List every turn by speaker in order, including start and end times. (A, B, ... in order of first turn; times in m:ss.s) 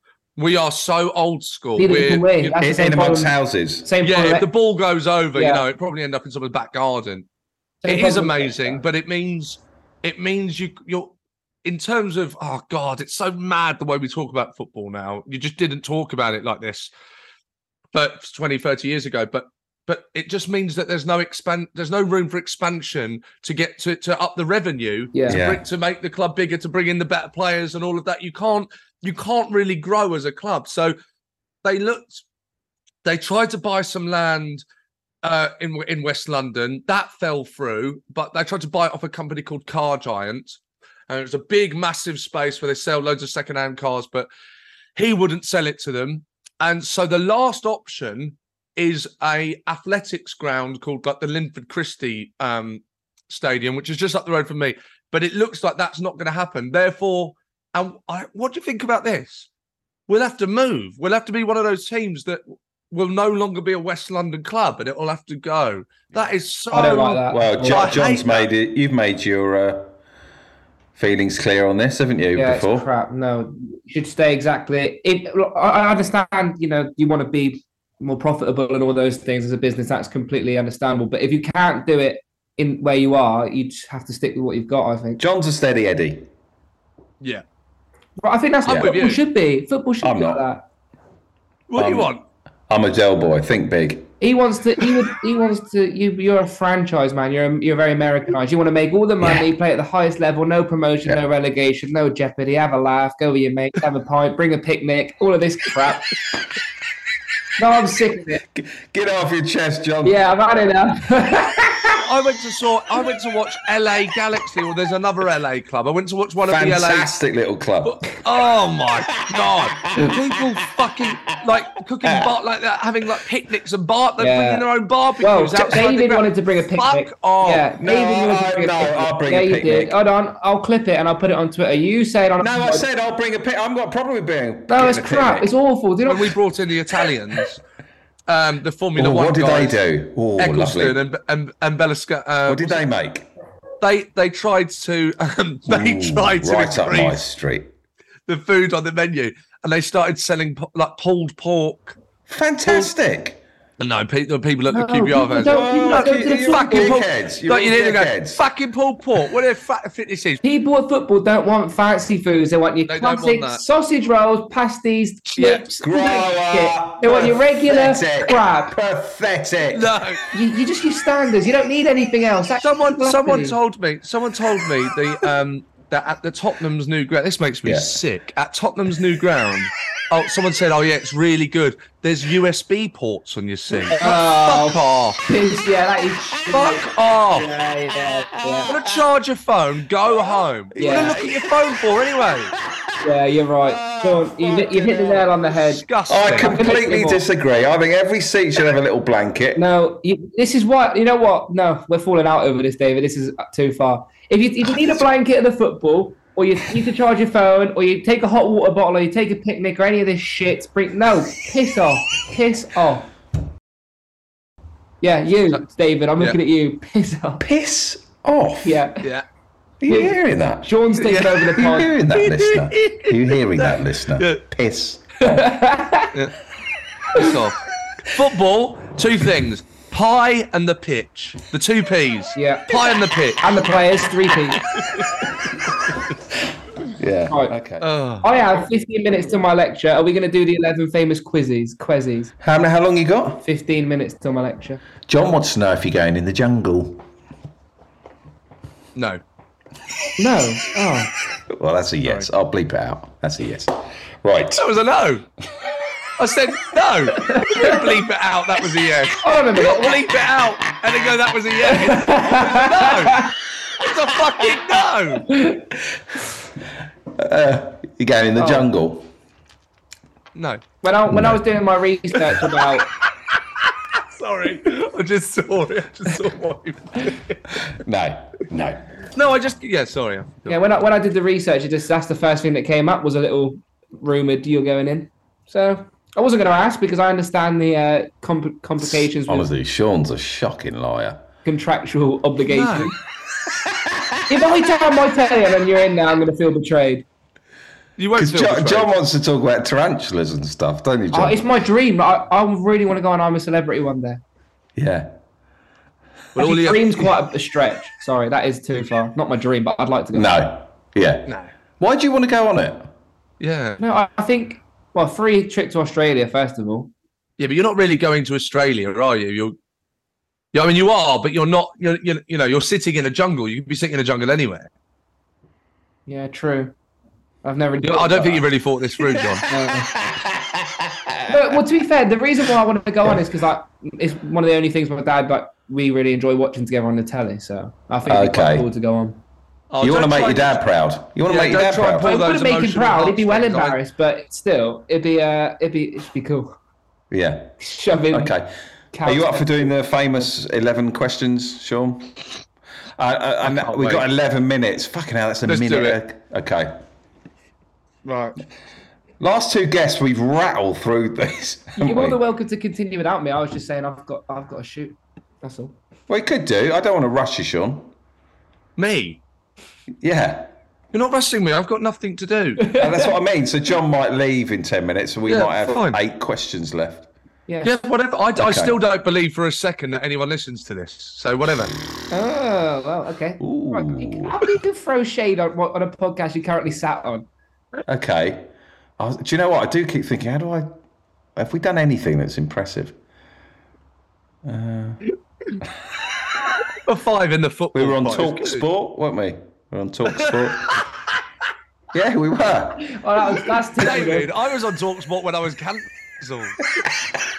0:00.4-0:02.6 A
0:01.8-0:04.5 B
0:02.6-0:03.9 C
0:04.0-0:07.3 A
0:05.4-0:05.6 B
0:07.8-0:08.8 B
0:07.8-0:16.9 A
0:17.9-0:31.0 A
0:25.1-0:25.4 B
0:25.3-0:25.6 C
0:31.6-0:32.2 A
0:33.0-0:34.6 A
0:35.2-0:40.6 A
0:41.1-0:44.3 A
0:45.0-0:59.5 A
1:00.1-1:08.5 A
1:06.7-1:08.0 B
1:07.3-1:09.9 C
1:11.0-1:12.9 C
1:12.3-1:25.2 B
1:25.2-1:26.3 C
1:28.2-1:30.6 B
1:28.6-1:29.2 A
1:30.0-1:30.4 C
1:31.7-1:32.2 A
1:31.8-1:32.1 C
1:32.7-1:34.1 C
1:34.2-1:46.1 B
1:47.6-1:48.4 B
1:48.5-1:50.2 C
1:50.0-1:52.0 B
1:51.9-1:57.1 A
1:56.5-1:58.0 C
1:57.8-2:07.7 A
1:59.2-2:00.4 C
2:02.0-2:02.3 C
2:04.2-2:04.6 B
2:05.2-2:12.8 B
2:07.8-2:10.0 C
2:12.4-2:15.5 C
2:14.7-2:16.3 B
2:16.0-2:17.6 A
2:18.3-2:19.8 A
2:19.0-2:21.0 C
2:20.4-2:22.8 A
2:22.4-2:23.3 C
2:23.8-2:27.2 A
2:25.7-2:27.7 C
2:28.3-2:32.0 A
2:32.3-2:33.4 C
2:33.8-2:40.4 A
2:34.7-2:37.0 B
2:35.4-2:38.4 C
2:40.4-2:48.7 B
2:42.9-2:43.6 A
2:45.4-2:45.6 A
2:45.8-2:49.9 C
2:49.7-2:50.2 A
2:50.3-2:53.6 B
2:52.6-3:05.2 A
2:57.6-2:58.0 C
3:03.9-3:08.7 B
3:06.5-3:07.5 A
3:08.7-3:12.5 A
3:10.7-3:11.7 C
3:10.8-3:11.2 B
3:13.0-3:17.2 B
3:13.6-3:15.4 C
3:15.6-3:16.5 A
3:16.1-3:19.6 C
3:19.6-3:33.1 B
3:35.0-3:37.4 B
3:37.4-3:38.8 C
3:38.6-3:39.0 B
3:39.8-3:40.8 C
3:39.9-3:41.9 B
3:41.0-3:44.4 A
3:41.5-3:45.5 C
3:45.2-3:46.1 B
3:47.1-3:53.6 A
3:52.4-3:52.8 B
3:53.4-3:54.6 B
3:54.6-3:55.1 A
3:56.9-3:57.9 C
3:57.8-3:58.3 A
3:58.2-4:02.3 B
4:02.4-4:03.4 C
4:03.4-4:04.8 B
4:05.1-4:07.0 C
4:08.9-4:09.2 A
4:10.2-4:11.1 B
4:11.5-4:14.6 C
4:14.6-4:15.2 A
4:16.2-4:25.3 A
4:17.3-4:17.8 B
4:19.2-4:20.0 B
4:21.7-4:23.3 B
4:25.3-4:25.6 B
4:27.1-4:29.1 C
4:28.4-4:28.7 B
4:30.3-4:30.6 A
4:30.8-4:32.9 B
4:31.1-4:31.4 C
4:32.4-4:37.4 A
4:37.7-4:38.8 C
4:39.1-4:40.6 A
4:40.5-4:49.5 B
4:48.8-4:51.2 C
4:51.4-4:52.9 B
4:52.5-4:52.9 A
4:53.7-4:54.1 C
4:54.3-4:57.0 B
4:58.0-4:58.9 A
4:58.2-5:01.4 C
5:01.1-5:04.2 B
5:04.8-5:05.1 C
5:06.3-5:07.1 A
5:06.4-5:10.3 B
5:10.1-5:11.3 C
5:11.3-5:11.5 A
5:11.8-5:12.9 C
5:13.4-5:13.8 A
5:13.8-5:16.9 B
5:17.4-5:19.6 A
5:20.5-5:24.7 A
5:26.1-5:26.7 B
5:27.4-5:28.4 B
5:27.8-5:29.4 A
5:29.0-5:31.6 C
5:29.5-5:29.9 B
5:31.3-5:39.2 B
5:38.0-5:38.7 C
5:39.7-5:40.6 A
5:39.8-5:42.1 C
5:41.2-5:43.8 A
5:41.9-5:46.5 B
5:47.1-5:47.6 C
5:47.6-5:48.3 B
5:48.1-5:52.2 C
5:48.9-5:49.7 B
5:53.0-5:56.8 C
5:53.4-5:54.0 A
5:55.5-5:56.0 A
5:58.0-5:58.4 A
5:59.2-6:02.2 C
6:01.8-6:05.7 B
6:06.1-6:07.9 C
6:08.8-6:09.2 A
6:10.0-6:10.5 C
6:10.9-6:12.6 A
6:12.6-6:13.1 B
6:12.8-6:17.1 C
6:15.3-6:16.0 A
6:17.5-6:17.7 B
6:17.6-6:21.7 A
6:18.4-6:18.8 C
6:22.1-6:27.3 B
6:23.4-6:24.4 C
6:27.8-6:30.8 C
6:31.4-6:33.0 C
6:34.4-6:35.0 C
6:36.8-6:38.6 A
6:37.7-6:40.8 C
6:40.2-6:40.9 A
6:41.9-6:42.9 C
6:42.8-6:44.3 B
6:43.8-6:46.7 A